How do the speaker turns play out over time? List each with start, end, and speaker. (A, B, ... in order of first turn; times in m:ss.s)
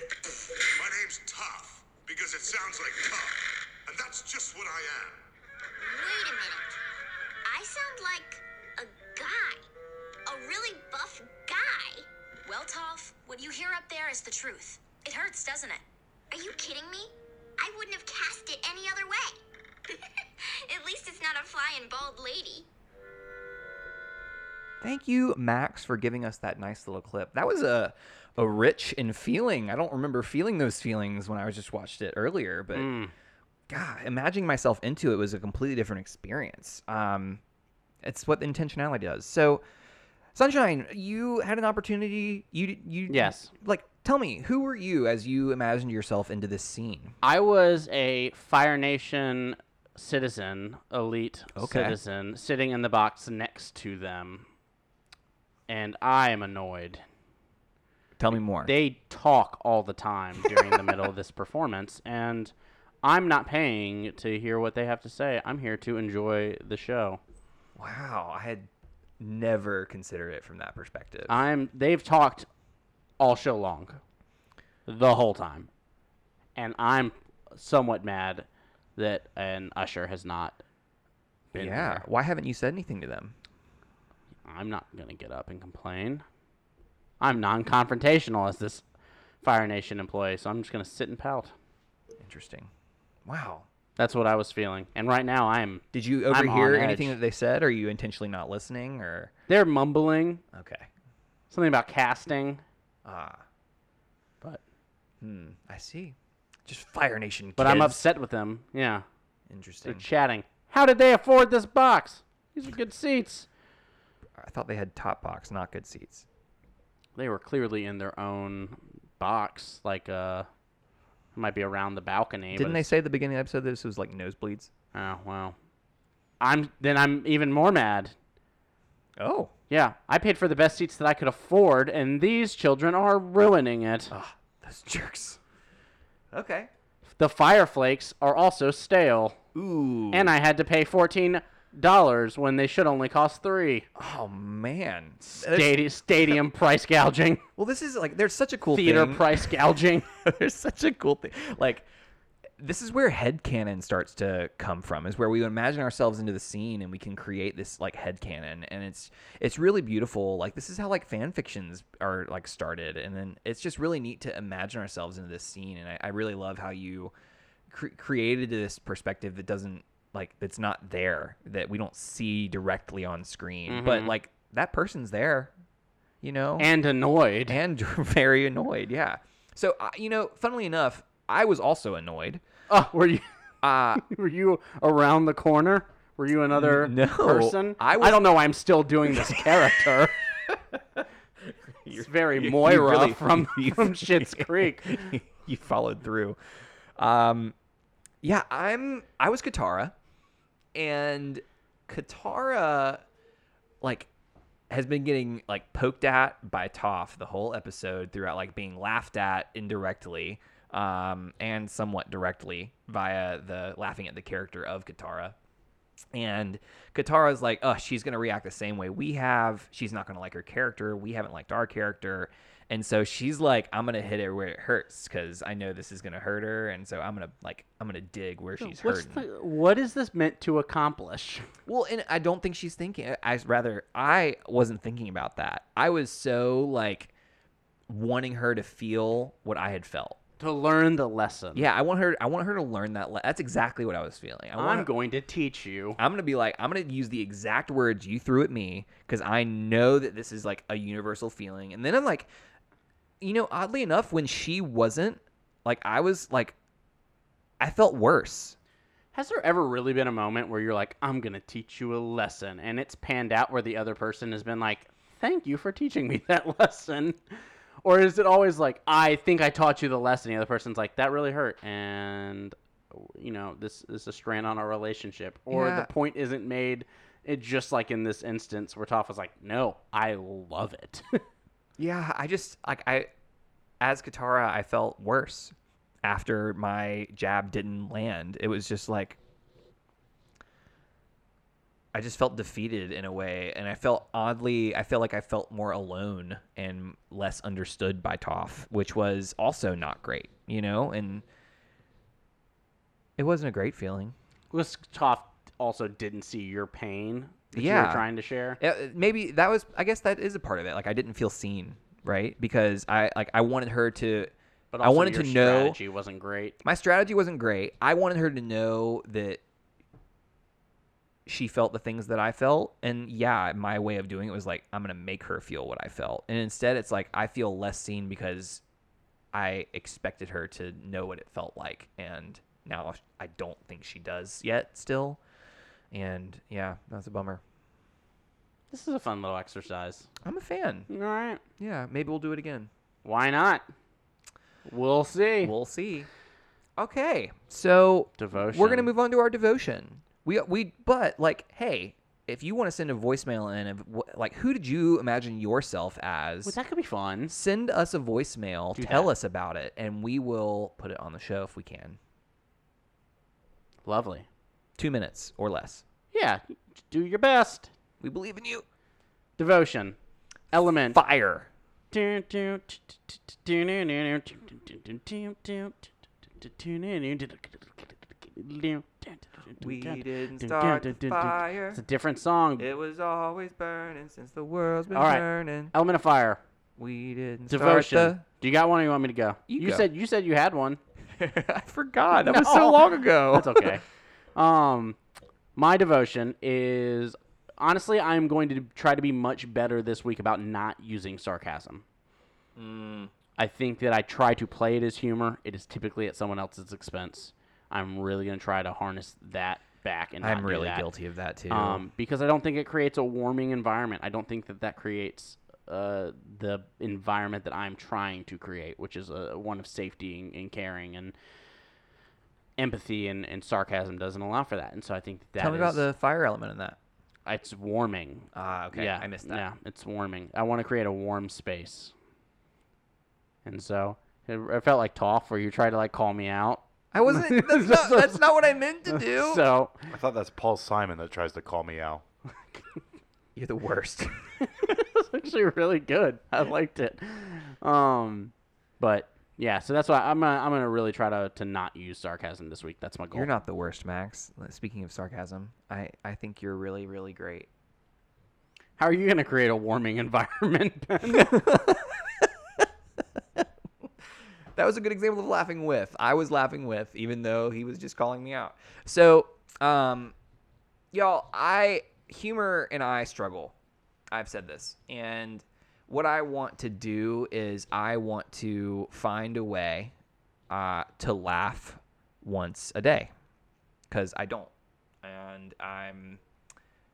0:00.2-0:05.2 A
0:05.8-0:06.8 B
0:07.4-0:09.6 B
0:10.2-0:22.7 B
0:24.8-0:32.9 C
0:32.7-0:33.1 D
0:33.7-0:37.4 C
0:38.0-0:39.6 C
0:40.3-0:47.2 C
0:43.1-0:43.5 D
0:47.2-0:54.5 D
0:51.6-0:52.0 C
0:55.7-0:57.0 D
0:58.2-0:58.7 C
0:58.6-1:02.5 D
1:00.5-1:00.8 C
1:03.0-1:07.2 D
1:07.8-1:08.7 C
1:09.2-1:11.4 C
1:11.3-1:12.5 D
1:13.2-1:14.0 D
1:14.8-1:15.7 D
1:16.6-1:20.6 D
1:21.5-1:22.0 D
1:21.5-1:23.3 C
1:24.4-1:26.2 D
1:27.2-1:28.8 D
1:29.4-1:31.5 D
1:32.2-1:32.7 C
1:33.2-1:33.6 C
1:34.0-1:37.2 D
1:35.9-1:39.3 C
1:39.5-1:40.4 D
1:40.5-1:40.9 C
1:41.5-1:42.6 D
1:43.0-1:43.4 C
1:45.2-1:48.0 C
1:47.6-1:49.0 D
1:49.5-1:50.0 C
1:49.8-1:53.5 D
1:54.4-1:56.2 C
1:57.2-2:00.5 D
2:01.3-2:02.9 D
2:02.5-2:04.7 C
2:04.9-2:05.6 D
2:06.4-2:08.1 D
2:09.2-2:09.5 C
2:09.7-2:14.1 D
2:14.1-2:15.4 C
2:16.3-2:16.7 C
2:17.2-2:19.4 D
2:19.5-2:20.3 C
2:20.1-2:23.9 D
2:24.0-2:26.3 C
2:25.2-2:27.4 D
2:27.6-2:31.8 C
2:28.7-2:30.0 D
2:32.6-2:47.1 C
2:47.7-2:55.5 C
2:53.7-2:54.1 D
2:56.2-2:56.7 C
2:56.6-2:57.6 D
2:57.5-3:02.4 C
3:02.7-3:03.2 D
3:03.6-3:04.0 C
3:03.9-3:10.1 D
3:06.5-3:08.2 C
3:09.1-3:09.8 C
3:10.4-3:16.4 C
3:11.9-3:15.2 D
3:17.0-3:17.5 C
3:18.2-3:19.9 C
3:20.7-3:23.0 C
3:23.8-3:24.1 C
3:24.7-3:35.4 C
3:36.1-3:49.2 C
3:48.6-3:51.4 D
3:51.6-3:57.1 C
3:57.9-4:00.2 C
4:00.4-4:01.7 D
4:01.5-4:04.9 C
4:04.6-4:06.0 D
4:06.0-4:12.3 C
4:13.2-4:16.5 C
4:17.6-4:18.6 C
4:19.1-4:41.2 D
4:35.5-4:35.9 C
4:41.8-4:43.1 C
4:43.8-4:49.2 C
4:51.9-5:01.2 C
5:03.2-5:04.1 C
5:04.5-5:08.6 D
5:07.5-5:08.0 C
5:08.6-5:15.8 C
5:14.7-5:16.6 D
5:16.6-5:19.4 C
5:21.2-5:28.6 C
5:29.3-5:35.2 C
5:35.9-5:37.4 C
5:38.7-5:40.1 D
5:40.2-5:40.9 C
5:40.9-5:41.4 D
5:41.6-5:42.7 C
5:43.0-5:43.6 D
5:44.6-5:45.5 D
5:45.4-5:46.1 C
5:46.8-5:56.6 C
5:48.2-5:48.9 D
5:56.4-5:57.3 D
5:57.3-6:02.0 C
5:58.8-5:59.1 D
6:03.8-6:04.3 D
6:04.8-6:05.8 C
6:06.1-6:07.7 D
6:08.0-6:08.6 C
6:09.4-6:10.0 D
6:10.5-6:11.0 D
6:10.9-6:11.5 C
6:11.9-6:22.7 D
6:19.6-6:21.8 C
6:22.6-6:25.7 C
6:24.9-6:26.4 D
6:26.8-6:28.2 C
6:27.5-6:30.8 D
6:29.5-6:29.8 C
6:31.2-6:33.8 C
6:32.2-6:33.8 D
6:34.3-6:35.0 D
6:35.5-6:41.8 D
6:42.6-6:43.1 C
6:43.4-6:50.8 D
6:50.2-6:51.8 C
6:51.5-7:01.1 D
7:02.6-7:05.8 D
7:05.4-7:06.8 C
7:07.2-7:11.9 D
7:08.3-7:09.4 C
7:13.4-7:18.2 D
7:16.9-7:19.4 C
7:18.9-7:19.9 D
7:19.9-7:22.0 E
7:23.4-7:24.1 C
7:24.4-7:33.3 D
7:33.1-7:37.5 C
7:38.8-7:41.4 D
7:41.1-7:42.3 C
7:44.5-7:50.1 C
7:50.9-7:53.5 C
7:54.1-7:59.9 C
8:00.5-8:03.1 C
8:03.9-8:04.5 C
8:05.0-8:06.2 C